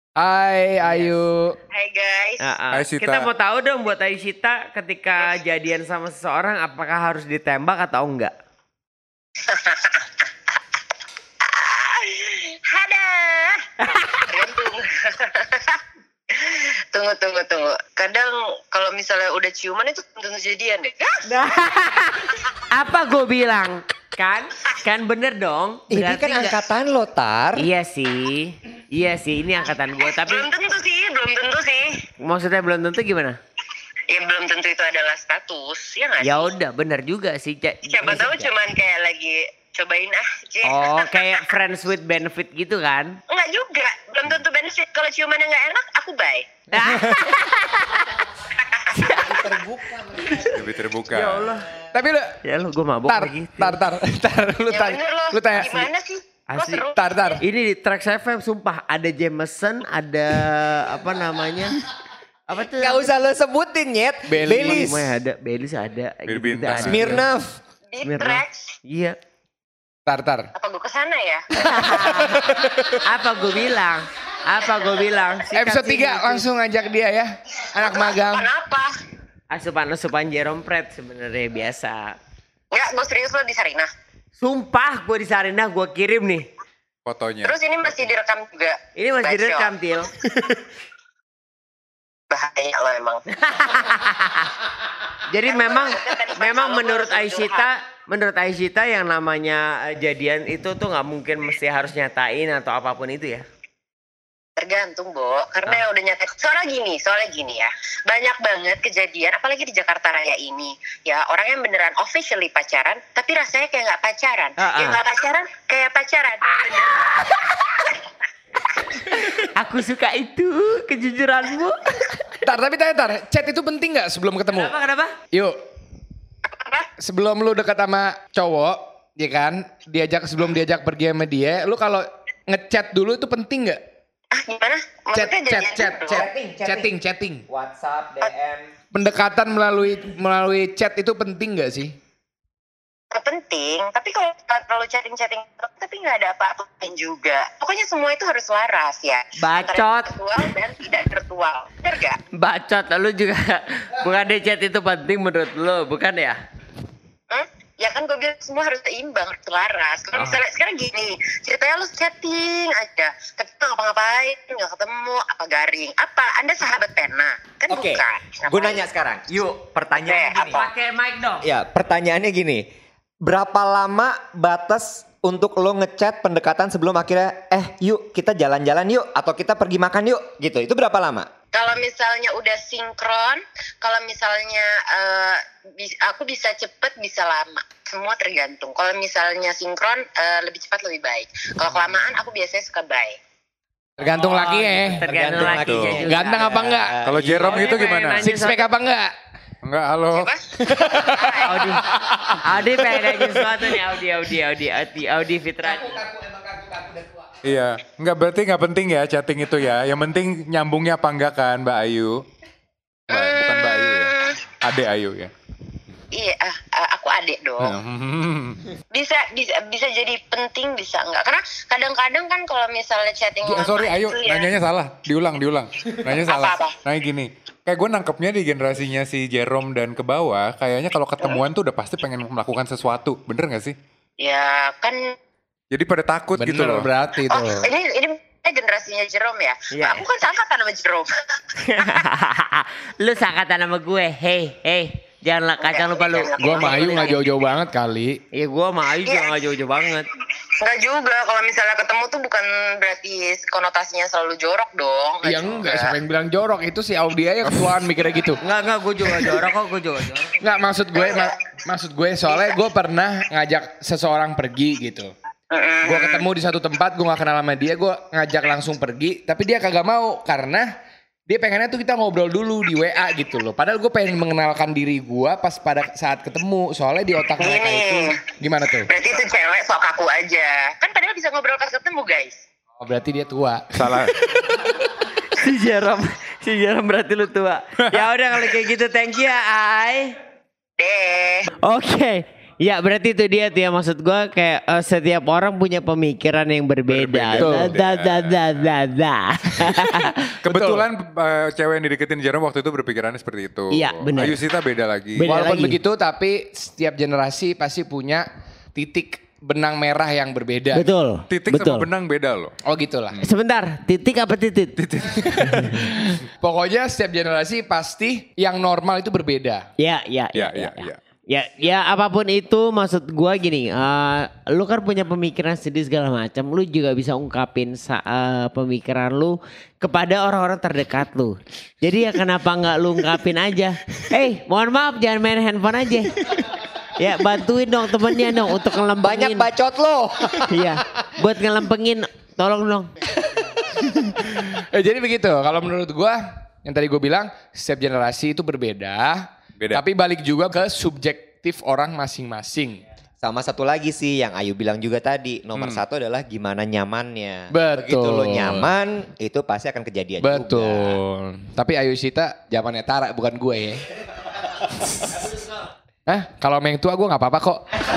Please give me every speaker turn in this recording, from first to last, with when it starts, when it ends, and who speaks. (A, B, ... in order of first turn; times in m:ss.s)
0:00.2-0:01.6 A
0:00.8-0:01.2 B
0:01.7-0:02.4 C
0:02.4-0:08.3 B
0:02.7-0:03.3 D
0:09.4-0:10.3 C
0:11.4-0:15.8 C
0:13.8-0:14.2 B
0:16.3-0:21.2 C
0:21.2-0:26.6 B
0:25.9-0:27.7 E
0:27.6-0:30.5 B
0:30.0-0:32.0 C
0:32.2-0:33.4 B
0:34.1-0:36.5 C
0:36.2-0:38.5 B
0:37.8-0:41.5 C
0:40.6-0:43.2 B
0:43.3-0:46.5 C
0:46.7-0:48.3 B
0:48.4-0:49.5 C
0:48.9-0:49.5 B
0:49.0-0:50.7 E
0:50.5-0:51.5 D
0:51.1-0:51.7 B
0:51.9-0:52.4 A
0:52.4-0:53.8 B
0:53.1-0:55.9 A
0:54.7-0:57.4 C
0:56.5-0:56.8 B
0:57.0-0:57.4 A
0:57.4-1:01.8 B
1:02.5-1:03.1 B
1:02.8-1:05.1 E
1:04.3-1:04.9 A
1:04.4-1:07.2 B
1:06.3-1:07.2 D
1:06.7-1:07.6 E
1:07.9-1:08.7 C
1:08.0-1:09.2 B
1:10.1-1:10.5 A
1:10.6-1:11.5 C
1:11.6-1:16.5 B
1:11.7-1:13.0 A
1:15.5-1:18.5 A
1:17.8-1:18.9 C
1:19.5-1:22.2 B
1:22.7-1:23.9 C
1:24.4-1:26.5 B
1:27.0-1:27.6 D
1:27.4-1:29.8 C
1:29.0-1:30.1 B
1:32.3-1:33.2 C
1:33.4-1:34.6 B
1:35.3-1:43.4 B
1:35.4-1:37.7 C
1:44.6-1:58.0 C
1:54.6-1:55.0 B
1:56.5-1:57.6 B
1:59.1-2:02.3 B
2:02.4-2:04.7 A
2:04.5-2:05.2 B
2:05.3-2:05.6 A
2:06.5-2:06.9 C
2:07.0-2:13.8 A
2:14.3-2:16.2 C
2:15.2-2:17.4 A
2:16.1-2:16.9 E
2:17.5-2:18.7 E
2:18.9-2:22.0 A
2:23.1-2:32.2 C
2:29.4-2:30.5 B
2:32.3-2:36.4 B
2:37.3-2:48.8 C
2:47.7-2:50.6 E
2:50.0-2:50.7 C
2:50.4-2:51.5 B
2:51.4-2:52.7 E
2:53.2-3:01.3 E
3:01.5-3:13.2 C
3:14.0-3:17.0 A
3:14.0-3:18.7 B
3:15.0-3:17.7 E
3:15.5-3:16.0 D
3:17.0-3:18.2 D
3:18.2-3:19.1 A
3:19.6-3:20.3 D
3:20.1-3:20.4 C
3:20.6-3:23.6 A
3:21.1-3:21.5 C
3:21.4-3:26.0 B
3:26.1-3:27.0 A
3:27.4-3:32.2 D
3:33.1-3:34.4 C
3:33.1-3:34.1 D
3:34.6-3:35.3 D
3:36.1-3:37.8 C
3:37.6-3:38.6 D
3:38.9-3:44.5 C
3:43.4-3:53.8 D
3:46.0-3:46.8 C
3:54.2-3:55.2 C
3:55.7-3:56.9 D
3:56.4-3:57.7 A
3:57.3-4:01.1 C
3:59.7-4:00.0 B
4:01.6-4:07.2 B
4:05.6-4:07.3 C
4:06.4-4:08.2 A
4:08.3-4:10.1 B
4:09.1-4:09.4 C
4:10.6-4:16.0 C
4:15.2-4:18.4 A
4:17.5-4:17.7 D
4:18.4-4:20.4 B
4:19.1-4:19.4 A
4:20.4-4:25.1 A
4:21.0-4:21.4 C
4:25.5-4:26.3 C
4:25.8-4:30.7 A
4:31.3-4:38.9 A
4:37.4-4:38.2 C
4:38.8-4:42.4 C
4:42.8-4:44.1 A
4:43.7-4:44.1 D
4:44.4-4:50.2 B
4:50.8-4:51.5 C
4:51.6-5:00.8 B
4:56.9-4:58.6 D
4:57.4-4:57.8 A
5:00.4-5:05.3 D
5:00.5-5:00.8 A
5:03.7-5:04.4 B
5:05.2-5:05.8 B
5:05.2-5:10.9 A
5:10.7-5:11.9 B
5:11.3-5:12.5 D
5:12.6-5:13.2 A
5:13.2-5:14.8 B
5:14.8-5:15.9 D
5:15.4-5:15.9 B
5:15.7-5:19.7 A
5:19.8-5:36.2 B
5:20.4-5:21.0 D
5:37.0-5:39.5 B
5:39.0-5:40.7 E
5:40.5-5:42.9 B
5:43.9-5:52.8 A
5:53.2-6:01.0 E
5:55.6-5:55.8 D
5:57.5-5:58.7 A
6:00.2-6:03.8 A
6:06.1-6:07.6 A